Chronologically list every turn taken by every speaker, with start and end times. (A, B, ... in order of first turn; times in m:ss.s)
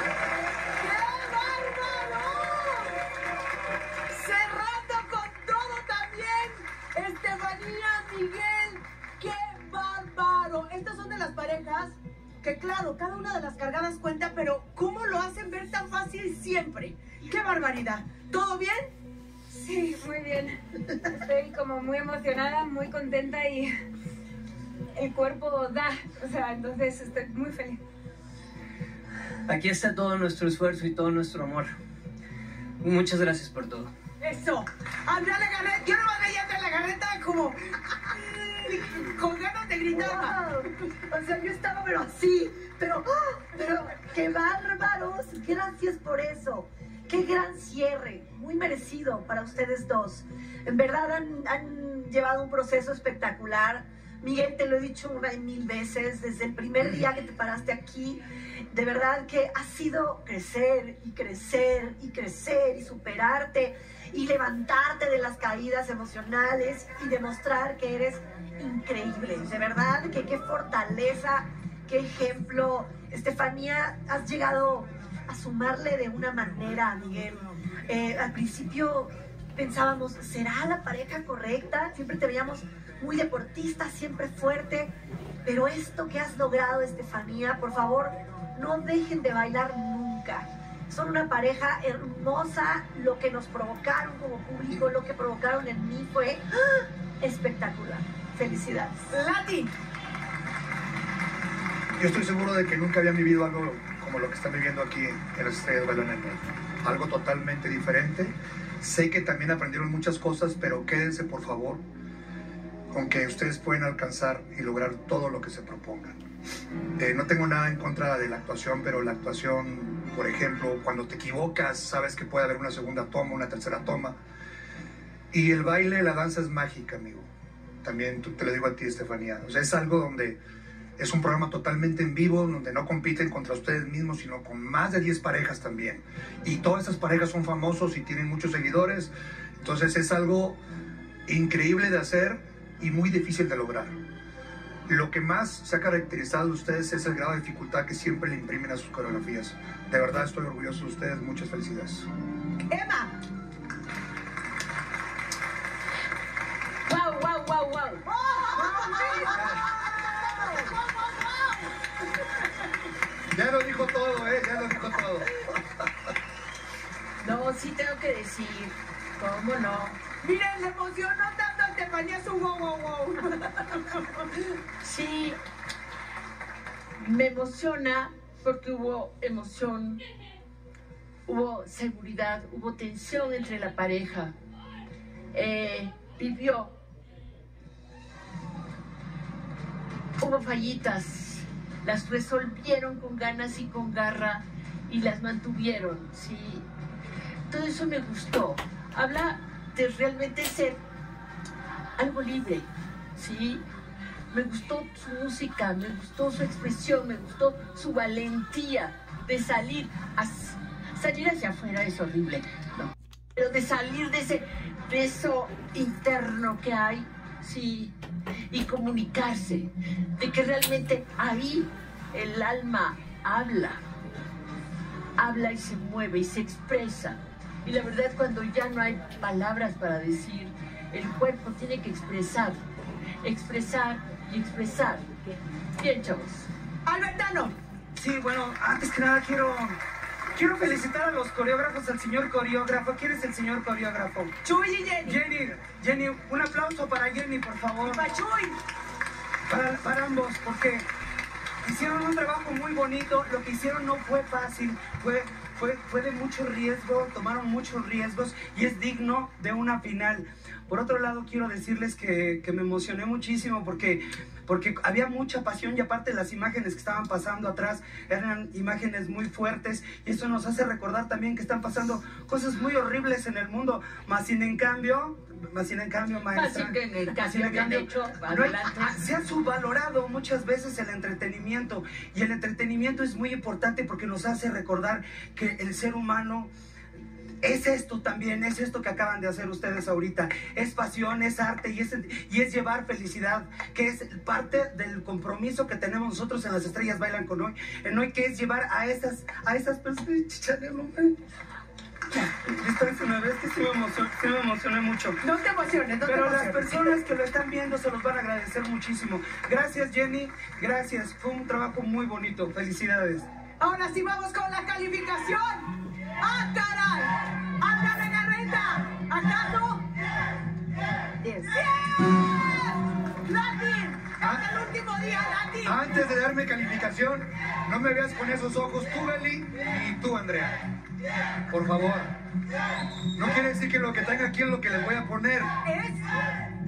0:00.8-0:03.0 A
0:04.1-0:18.9 A
0:19.6-0:20.6 B
0:21.2-0:23.7 B
0:25.0-0:27.8 B
0:29.5-0:31.8 C
0:32.8-0:33.9 C
0:34.2-0:40.4 A
0:39.9-1:24.9 D
1:25.4-1:39.1 D
1:39.1-1:39.7 A
1:42.0-1:51.8 E
1:52.9-1:56.2 E
1:57.0-2:04.2 E
2:05.3-2:07.3 E
2:07.8-2:10.4 E
2:11.0-2:20.6 E
2:21.3-2:24.0 E
2:24.9-2:32.1 E
2:32.7-2:33.1 A
2:36.9-2:38.0 F
2:38.0-2:41.7 A
2:43.3-2:45.3 E
2:47.2-2:50.0 F
2:50.2-2:54.0 A
2:54.6-2:55.4 F
2:57.0-3:00.0 F
3:01.3-3:04.3 F
3:05.3-3:06.8 F
3:10.2-3:16.6 F
3:17.5-3:20.8 F
3:22.0-3:23.6 F
3:24.3-3:37.9 F
3:38.5-3:43.8 F
3:45.2-3:52.6 F
3:53.2-3:56.5 F
3:56.9-3:57.5 A
3:58.0-3:59.8 G
4:00.3-4:04.3 G
4:04.4-4:05.2 A
4:05.0-4:08.1 G
4:07.8-4:08.6 A
4:09.5-4:10.9 G
4:11.6-4:46.5 G
4:36.3-4:39.0 F
4:47.4-5:01.2 G
5:02.2-5:05.2 G
5:05.2-5:07.0 A
5:06.0-5:13.3 G
5:13.6-5:19.9 A
5:21.4-5:25.8 A
5:25.6-5:30.6 E
5:31.5-5:32.2 E
5:33.1-5:35.5 E
5:35.6-5:36.0 A